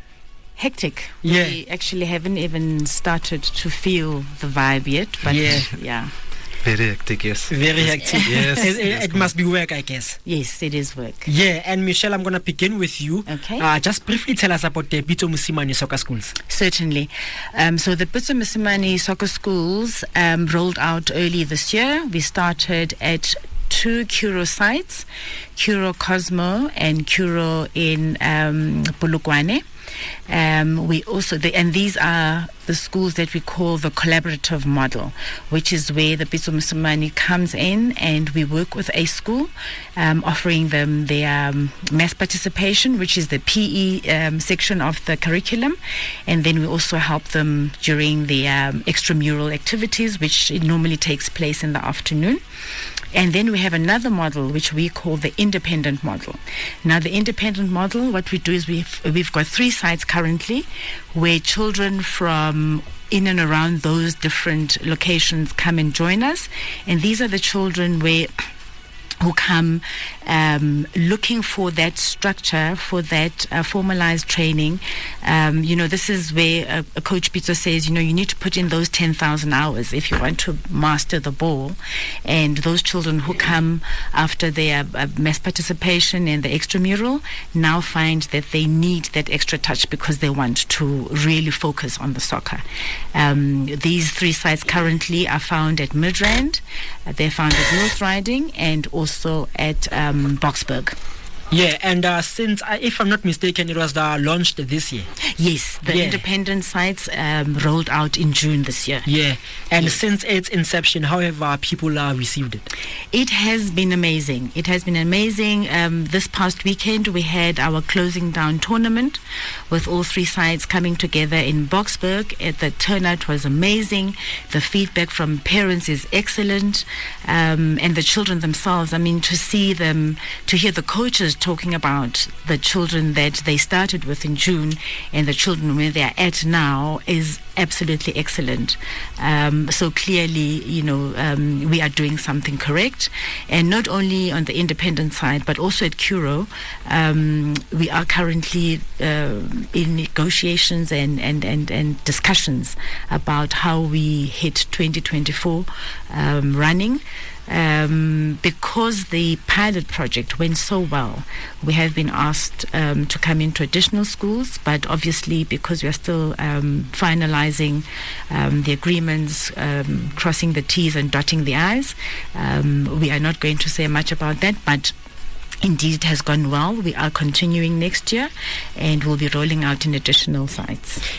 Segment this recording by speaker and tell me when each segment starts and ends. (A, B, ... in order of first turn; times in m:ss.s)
0:00.6-0:06.1 A
0:01.2-0:01.6 B
0:05.2-0:05.7 B
0:06.6-0:09.3 C
0:07.5-0:10.2 B
0:08.1-0:08.5 A
0:10.2-0:11.3 A
0:11.2-0:16.3 B
0:13.3-0:13.7 A
0:16.5-0:29.6 A
0:30.3-0:52.4 A
0:53.1-1:08.3 A
1:09.2-1:32.6 A
1:33.1-1:41.0 A
1:41.5-1:45.1 B
1:45.4-1:49.1 A
1:45.8-1:46.2 B
1:49.1-1:52.7 B
1:53.1-2:54.9 A
2:55.6-3:01.0 A